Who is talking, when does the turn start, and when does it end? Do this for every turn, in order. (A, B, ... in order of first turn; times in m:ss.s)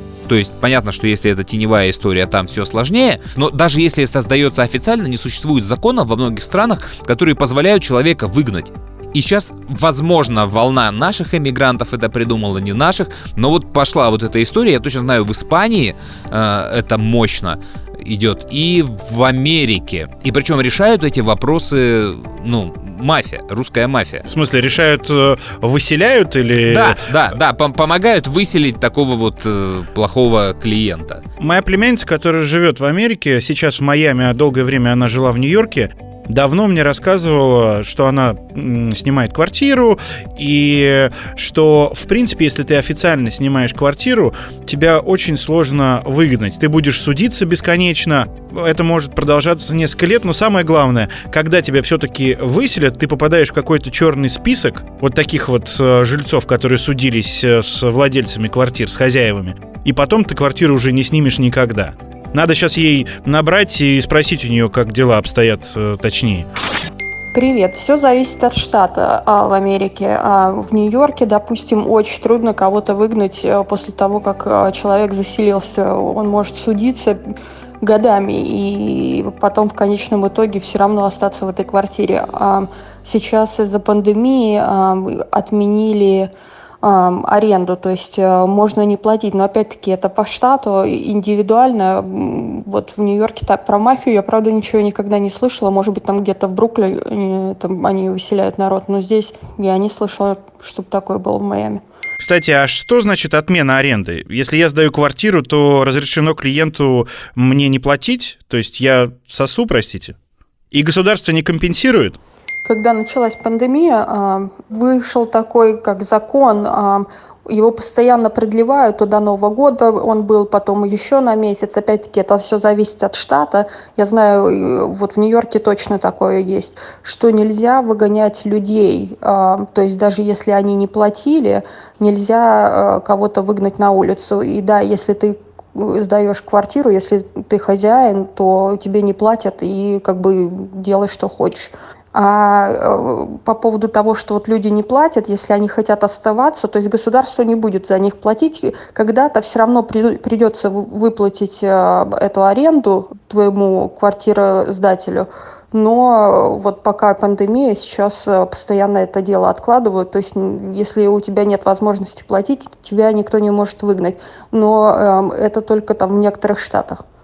0:00.3-0:24.2 A
0:24.3-0:27.0 B
0:26.7-0:31.2 A
0:31.4-1:06.5 B
1:07.3-1:17.2 C
1:17.8-1:26.3 C
1:26.8-1:41.8 C
1:42.2-1:50.1 B
1:50.7-1:52.2 B
1:52.6-2:47.0 C